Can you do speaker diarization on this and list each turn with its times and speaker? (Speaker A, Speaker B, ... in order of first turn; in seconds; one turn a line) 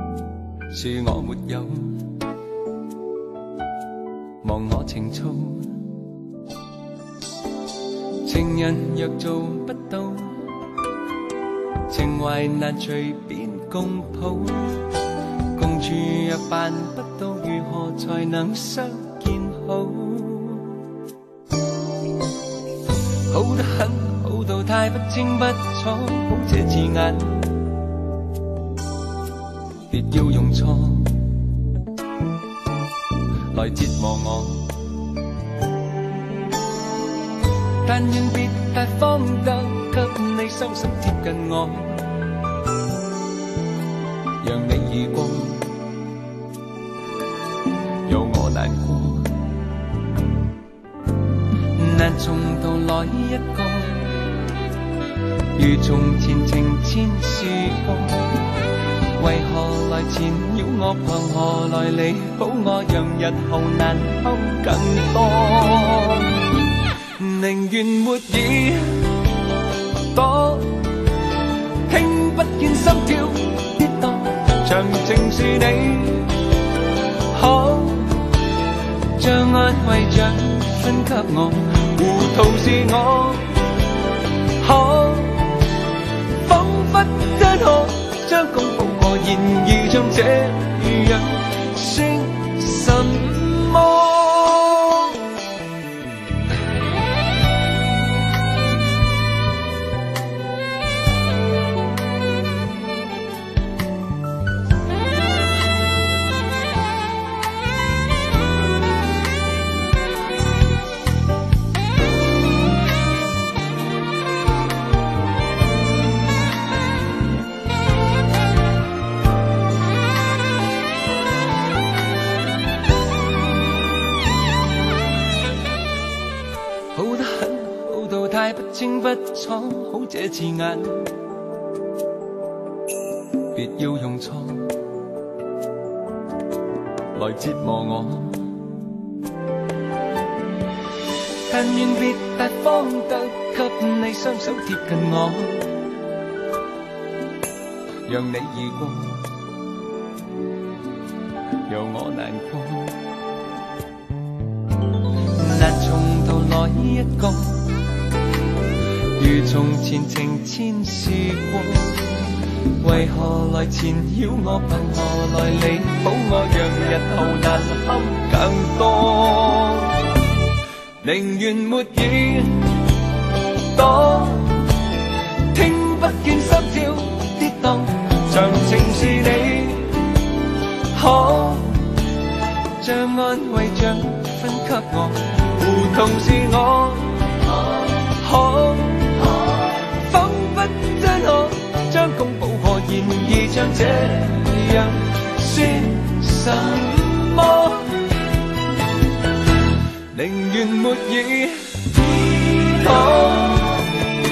Speaker A: 0.7-2.1
Speaker A: 4.4-5.7
Speaker A: 8.2-10.4
Speaker A: 11.9-14.8
Speaker A: 15.6-20.7
Speaker A: 23.3-27.5
Speaker A: 29.9-31.4
Speaker A: 33.5-34.7
Speaker A: 37.9-42.1
Speaker A: 44.4-45.7
Speaker A: 48.1-49.3
Speaker A: 51.8-54.1
Speaker A: 55.5-58.4
Speaker A: 59.2-66.2
Speaker A: 67.2-68.8
Speaker A: 70.1-70.8
Speaker A: 71.9-76.3
Speaker A: 77.3-78.2
Speaker A: 79.2-83.5
Speaker A: 84.6-85.6
Speaker A: 86.4-95.1
Speaker A: 127.0-131.1
Speaker A: 133.5-134.8
Speaker A: 137.2-138.4
Speaker A: 141.5-145.7
Speaker A: 148.1-149.3
Speaker A: 151.7-153.0
Speaker A: 155.4-157.7
Speaker A: 159.2-162.1
Speaker A: 162.8-169.9
Speaker A: 171.0-172.8
Speaker A: 173.7-174.6
Speaker A: 175.5-180.0
Speaker A: 180.9-181.8
Speaker A: 182.8-197.9
Speaker A: 200.1-203.9